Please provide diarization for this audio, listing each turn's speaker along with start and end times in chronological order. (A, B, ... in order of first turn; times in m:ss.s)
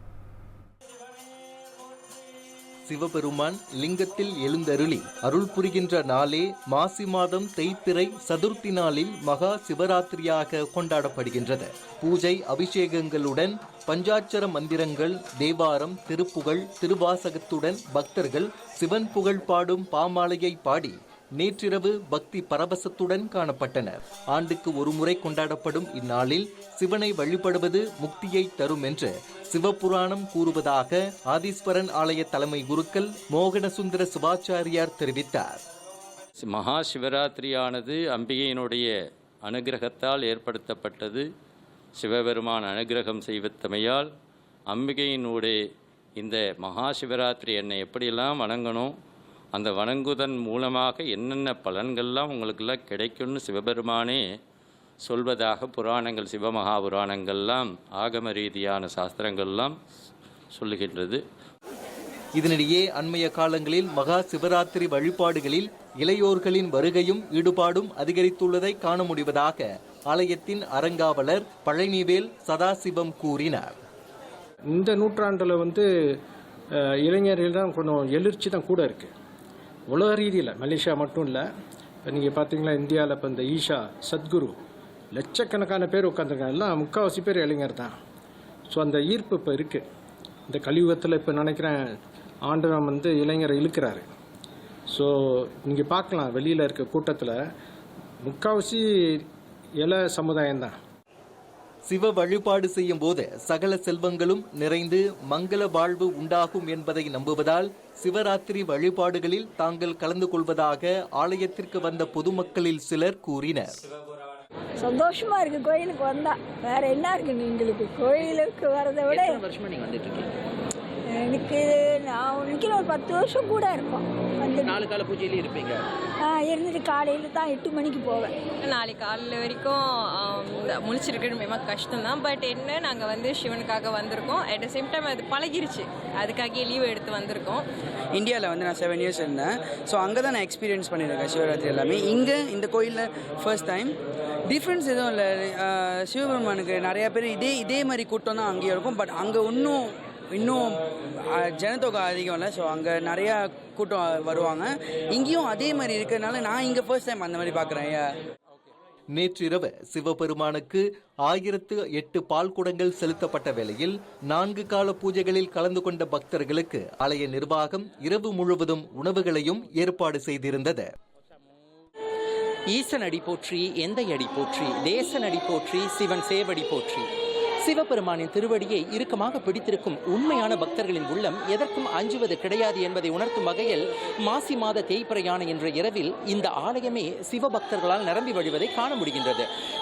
0:02.9-0:35.6 A
0:36.4-0:38.9 B
0:39.4-0:41.2 B
0:42.0-0:44.1 B
0:44.7-0:45.6 B
0:46.2-0:48.9 B
0:49.5-0:54.2 B
0:55.0-0:59.7 B
1:00.5-1:01.2 B
1:02.4-1:13.8 A
1:14.7-1:15.9 C
1:16.8-1:19.1 C
1:19.9-1:21.5 C
1:22.0-1:24.6 C
1:25.1-1:27.9 C
1:28.7-1:29.9 C
1:30.5-1:31.8 C
1:32.5-1:34.1 C
1:34.9-1:37.4 C
1:38.2-1:39.3 C
1:39.8-1:40.8 C
1:41.9-1:53.8 A
1:54.8-1:59.4 D
1:59.6-2:00.2 E
2:01.1-2:04.9 D
2:05.2-2:05.5 E
2:06.2-2:08.4 D
2:08.6-2:17.6 F
2:18.2-2:23.9 G
2:24.5-2:29.8 G
2:30.3-2:30.8 G
2:31.6-2:38.0 G
2:39.1-2:50.9 A
2:52.7-2:57.1 E
2:57.6-3:09.5 E